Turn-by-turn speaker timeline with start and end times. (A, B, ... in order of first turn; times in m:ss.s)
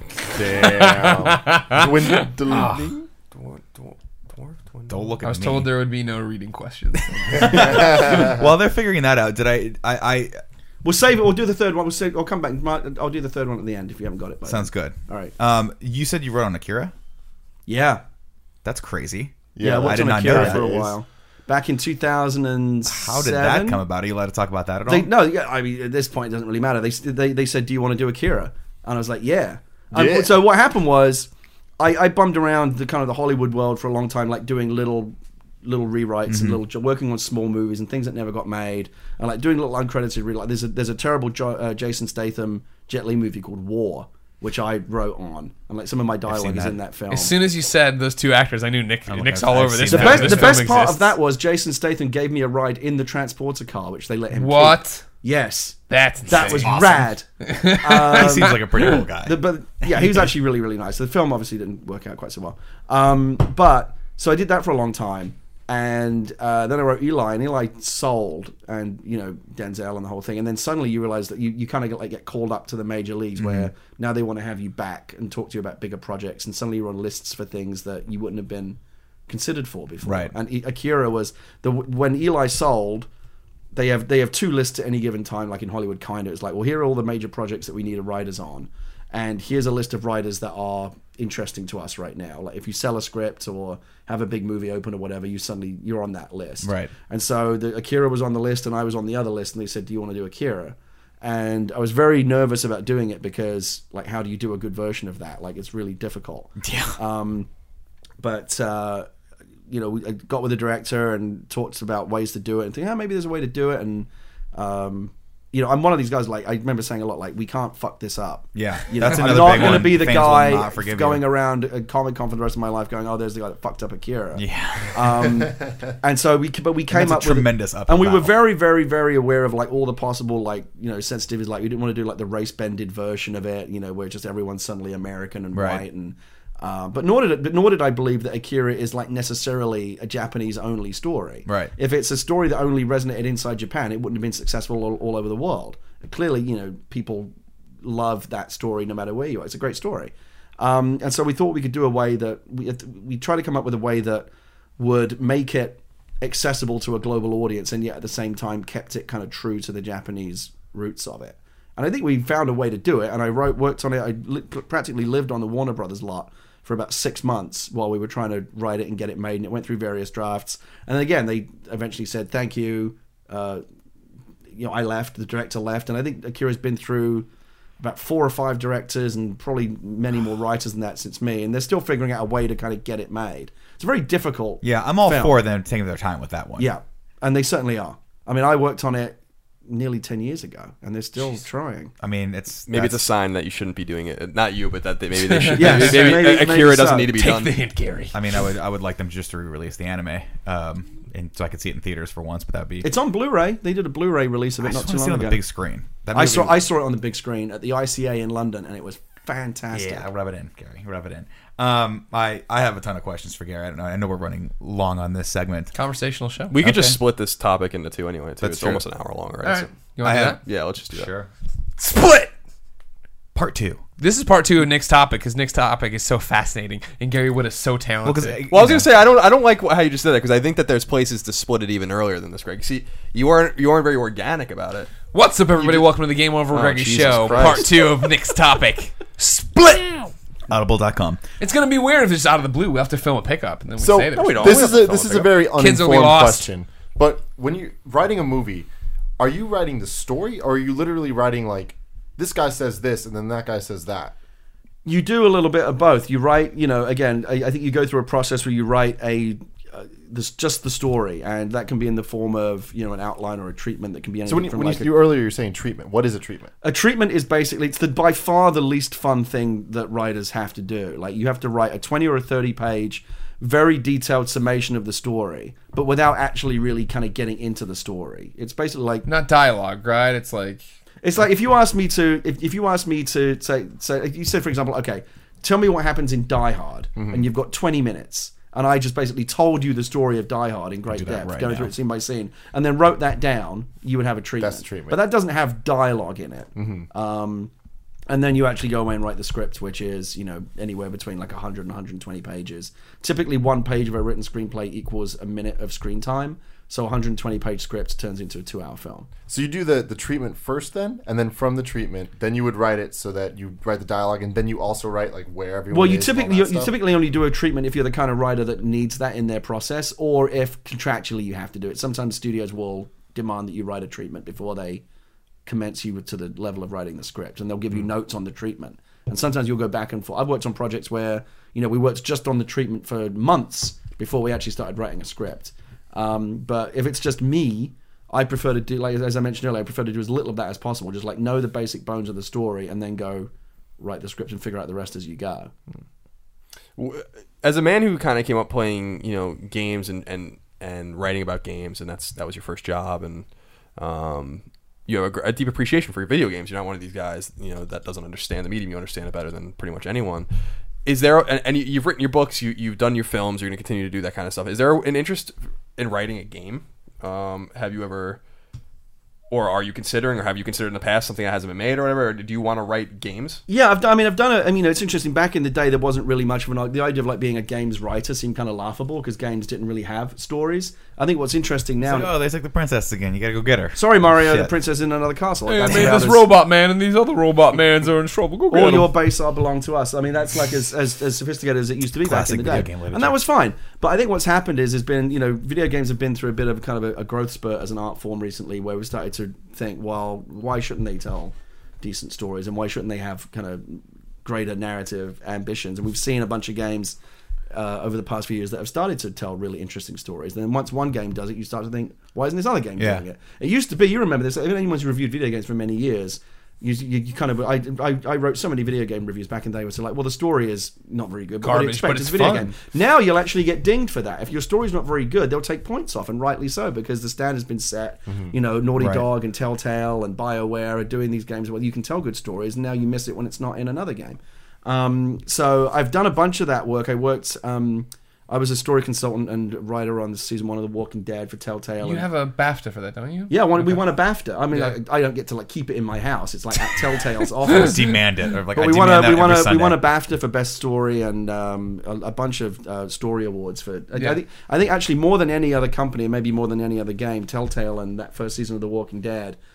0:00.3-0:02.8 A
0:00.5-0:03.0 B
0:02.5-0:05.1 C
0:04.9-0:05.7 D
0:05.2-0:08.2 B
0:07.3-0:10.4 D
0:07.5-0:08.4 A
0:10.8-0:15.3 E
0:14.4-0:16.9 D
0:17.7-0:18.0 E
0:18.6-0:20.7 D
0:19.6-0:21.0 A
0:19.6-0:23.8 E
0:22.8-0:25.1 D
0:24.9-0:47.4 E
0:29.9-0:30.4 A
0:36.3-0:36.6 D
0:46.3-0:46.8 D
0:47.1-0:51.2 B
0:49.1-0:50.6 D
0:49.9-1:23.1 E
0:54.3-0:55.0 B
0:55.9-0:59.0 B
0:56.3-0:57.0 A
0:57.9-1:00.3 D
1:13.4-1:13.7 D
1:20.0-1:20.3 D
1:23.7-1:47.5 E
1:36.6-1:36.9 D
1:46.6-1:47.0 D
1:48.2-1:49.1 E
1:49.7-2:53.6 E
1:58.6-2:01.2 D
2:04.3-2:05.3 D
2:06.9-2:08.4 D
2:15.5-2:15.8 D
2:21.5-2:21.7 D
2:54.6-2:57.3 E
2:57.8-3:05.4 E
3:04.6-3:06.7 D
3:06.6-3:11.9 E
3:12.0-3:13.0 D
3:12.7-3:17.6 C
3:15.3-3:16.3 B
3:15.6-3:17.1 E
3:17.1-3:18.2 B
3:18.1-3:22.9 D
3:22.8-3:25.4 E
3:24.6-3:26.6 D
3:26.1-3:30.1 E
3:29.7-3:35.7 D
3:35.7-3:36.6 B
3:36.5-3:39.7 C
3:36.6-3:37.0 D
3:38.4-3:38.8 D
3:39.4-3:40.4 B
3:40.0-3:41.3 D
3:40.4-3:41.1 C
3:41.8-3:42.3 B
3:43.4-3:43.8 D
3:44.0-3:48.4 B
3:48.0-3:48.9 D
3:48.5-3:54.9 C
3:55.1-4:00.1 B
3:55.6-3:55.9 C
3:56.5-3:57.7 C
4:00.5-4:01.2 D
4:01.4-4:04.9 B
4:03.8-4:08.7 A
4:04.1-4:05.3 C
4:05.5-4:06.5 B
4:09.2-4:14.2 A
4:14.8-4:24.9 E
4:24.3-4:26.5 A
4:26.6-4:39.1 E
4:39.0-4:40.6 B
4:41.0-4:57.5 E
4:47.0-4:47.3 A
4:50.9-4:51.7 D
4:54.4-4:55.0 A
4:56.6-4:56.9 A
4:58.1-5:09.1 E
5:09.2-5:16.8 A
5:15.7-5:24.8 E
5:25.4-5:45.5 E
5:46.8-6:00.3 C
6:00.8-6:08.2 C
6:09.3-6:13.4 C
6:13.5-6:22.1 E
6:21.8-6:24.5 D
6:23.8-6:26.3 E
6:25.5-6:28.9 B
6:28.5-6:47.0 E
6:32.0-6:33.2 D
6:47.5-7:22.1 E
6:52.8-6:53.0 D
7:01.4-7:02.6 B
7:08.8-7:09.1 D
7:21.8-7:23.8 B
7:23.3-7:39.4 E
7:24.5-7:24.8 B
7:27.4-7:29.8 D